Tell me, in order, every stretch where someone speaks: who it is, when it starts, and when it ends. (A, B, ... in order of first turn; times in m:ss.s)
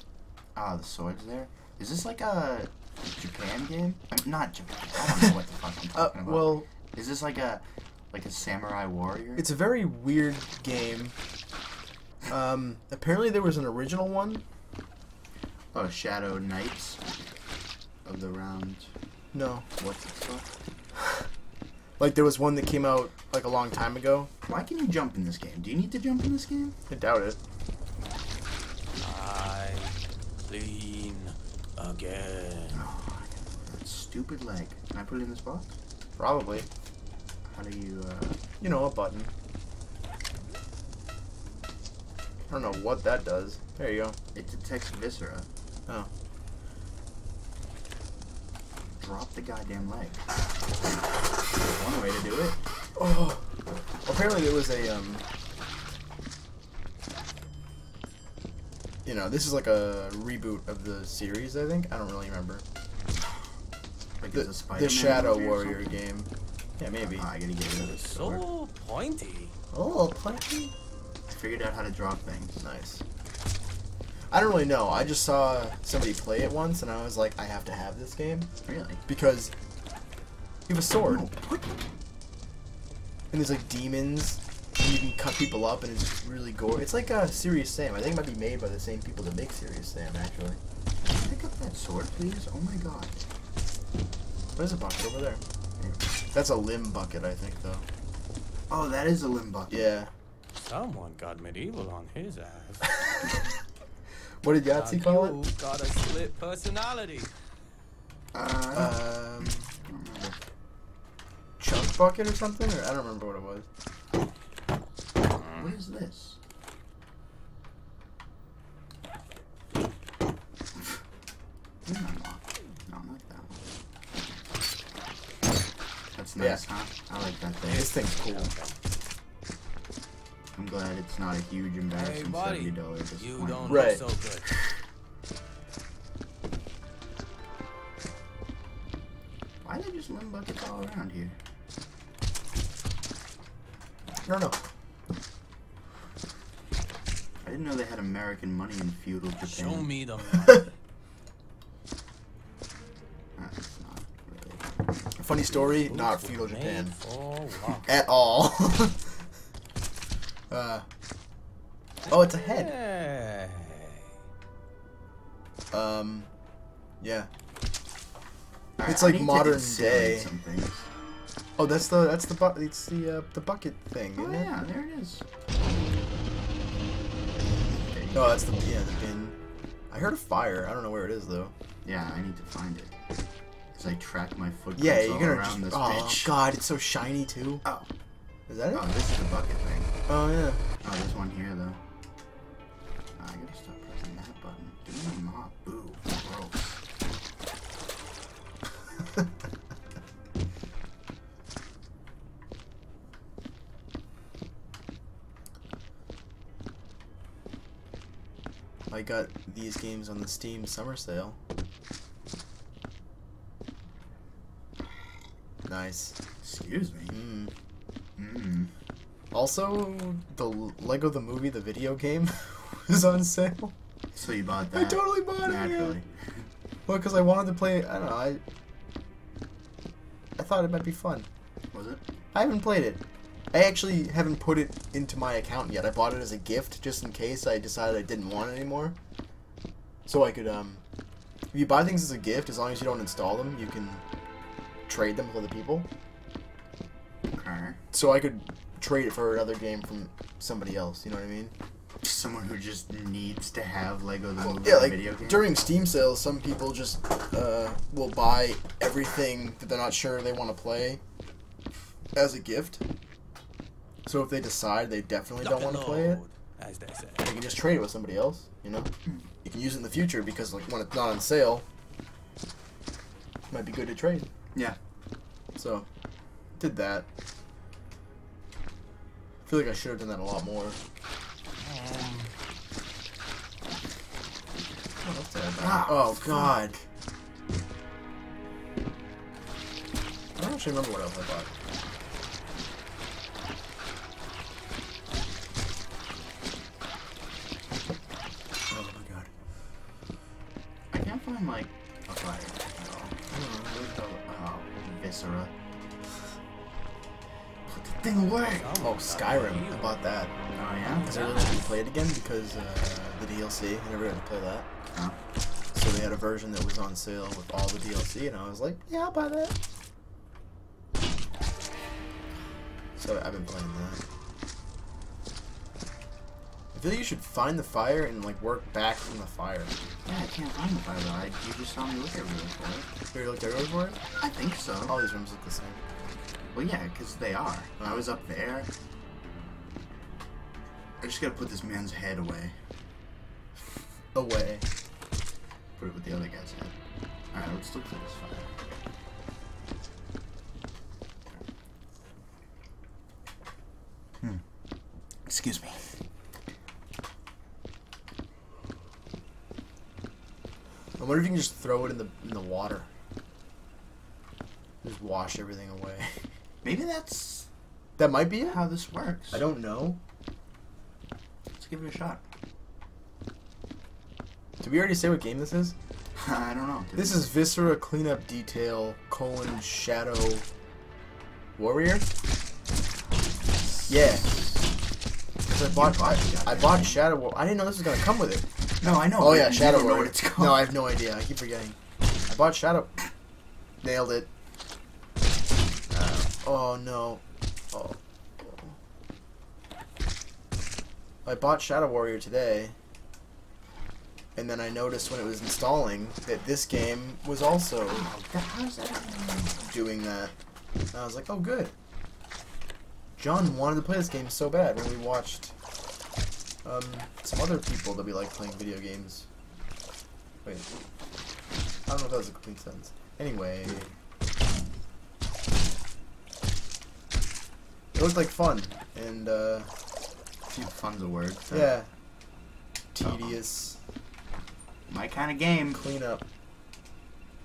0:00.6-0:09.5 A
0:05.9-0:06.7 B
0:09.4-0:11.1 B
0:12.3-0:14.4 B
0:15.7-0:17.0 A
0:18.0-0:18.9 A
0:19.3-0:19.6 B
0:19.8-0:20.5 A
0:22.0-0:24.3 B
0:24.5-0:26.8 A
0:26.9-0:27.4 B
0:29.0-0:32.8 C
0:32.7-0:35.7 A
0:36.2-0:36.7 B
0:37.4-0:38.4 A
0:38.6-0:39.3 B
0:42.5-0:44.2 B
0:44.3-0:45.5 A
0:49.0-0:50.2 A
0:51.5-0:52.6 A
0:53.0-0:53.4 B
0:54.0-0:55.2 B
0:59.0-1:02.6 B
1:04.2-1:05.9 A
1:04.3-1:07.3 B
1:07.1-1:08.4 A
1:07.8-1:09.5 C
1:09.7-1:10.7 B
1:11.3-1:12.6 A
1:12.6-1:13.0 B
1:14.3-1:18.5 B
1:18.6-1:19.0 A
1:19.1-1:19.5 B
1:20.7-1:21.3 B
1:21.0-1:21.7 A
1:23.3-1:30.6 B
1:31.1-1:33.2 A
1:34.6-1:35.4 B
1:36.3-1:37.8 B
1:38.7-1:39.9 A
1:39.7-1:40.1 B
1:40.5-1:43.0 C
1:44.4-1:45.4 B
1:44.7-1:47.3 C
1:48.3-1:50.4 A
1:48.7-1:49.6 B
1:51.6-1:53.6 B
1:55.3-1:55.7 C
1:55.5-1:56.4 A
2:01.8-2:03.6 A
2:06.1-2:07.9 A
2:06.4-2:06.6 B
2:07.6-2:08.8 C
2:07.7-2:08.5 B
2:10.5-2:14.0 A
2:11.9-2:14.5 C
2:13.7-2:14.0 B
2:19.6-2:21.4 A
2:24.2-2:24.6 B
2:27.4-2:29.9 A
2:29.5-2:30.7 C
2:33.4-2:34.7 A
2:35.2-2:36.9 B
2:35.5-2:37.9 C
2:37.9-2:39.0 B
2:40.5-2:40.8 B
2:42.1-2:42.7 B
2:42.1-2:44.0 C
2:45.7-2:46.3 B
2:47.0-2:47.3 B
2:48.8-2:50.9 A
2:48.8-2:50.3 B
2:51.6-2:54.5 B
2:54.2-2:55.2 A
2:57.7-2:58.4 A
2:58.1-2:59.3 B
2:59.9-3:01.5 B
3:01.8-3:02.9 A
3:03.7-3:06.3 A
3:04.8-3:07.6 B
3:07.6-3:07.9 A
3:08.5-3:08.9 B
3:08.7-3:09.9 A
3:10.1-3:10.6 B
3:10.8-3:11.8 A
3:13.1-3:16.8 A
3:28.9-3:31.4 B
3:35.6-3:36.1 B
3:36.4-3:37.2 A
3:37.1-3:37.5 B
3:38.2-3:38.7 A
3:39.3-3:43.7 B
3:44.1-3:46.4 A
3:44.7-3:46.0 B
3:46.9-3:48.4 B
3:50.4-3:51.3 B
3:51.7-3:52.0 A
3:52.3-3:53.0 B
3:53.5-3:58.9 B
4:00.0-4:00.8 B
4:01.5-4:04.0 B
4:04.9-4:05.9 B
4:07.3-4:07.8 A
4:07.9-4:11.5 B
4:12.0-4:15.4 A
4:14.4-4:21.0 B
4:22.1-4:22.8 B
4:24.0-4:26.2 B
4:25.4-4:27.3 C
4:27.2-4:28.9 B
4:29.4-4:31.6 B
4:33.5-4:34.3 B
4:35.5-4:35.8 B
4:36.6-4:37.1 B
4:39.4-4:40.8 B
4:41.6-4:42.3 C
4:45.0-4:46.8 B
4:45.6-4:46.7 A
4:50.4-4:51.5 B
4:58.7-4:59.3 B
5:00.9-5:03.2 A
5:03.3-5:03.8 B
5:03.7-5:05.5 A
5:07.7-5:08.7 A
5:08.4-5:10.0 C
5:08.8-5:10.3 B
5:10.4-5:11.1 A
5:10.8-5:11.8 C
5:11.0-5:14.7 B
5:15.7-5:19.5 B
5:23.0-5:24.0 B
5:26.7-5:29.7 B
5:30.0-5:32.9 A
5:33.1-5:34.0 B
5:34.2-5:35.0 A
5:34.8-5:35.8 B
5:36.5-5:38.7 A
5:37.8-5:38.0 B
5:41.0-5:42.5 A
5:44.1-5:44.6 B
5:45.8-5:46.7 A
5:47.3-5:48.5 A
5:55.2-5:55.8 A
6:01.0-6:02.9 B
6:04.8-6:06.1 B
6:06.6-6:07.5 A
6:08.0-6:08.6 B
6:08.4-6:09.4 A
6:09.3-6:10.0 B
6:11.6-6:12.2 A
6:14.6-6:15.7 B
6:16.1-6:17.2 A
6:17.0-6:20.4 B
6:21.6-6:22.1 B
6:23.8-6:24.6 A
6:23.9-6:24.4 B
6:25.5-6:28.4 B
6:25.6-6:27.0 A
6:28.8-6:30.6 A
6:29.0-6:31.8 B
6:32.3-6:33.0 B
6:33.8-6:34.3 B
6:35.9-6:38.7 B
6:41.2-6:42.7 B
6:44.4-6:48.1 B
6:47.9-6:49.6 A
6:49.6-6:50.3 B
6:50.9-6:51.7 B
6:53.2-6:55.5 B
6:56.6-6:59.2 B
7:01.9-7:03.9 B
7:07.9-7:09.7 B
7:10.5-7:11.7 A
7:11.5-7:11.9 B
7:12.9-7:13.8 B
7:13.0-7:13.4 A
7:14.9-7:15.8 A
7:15.7-7:16.2 B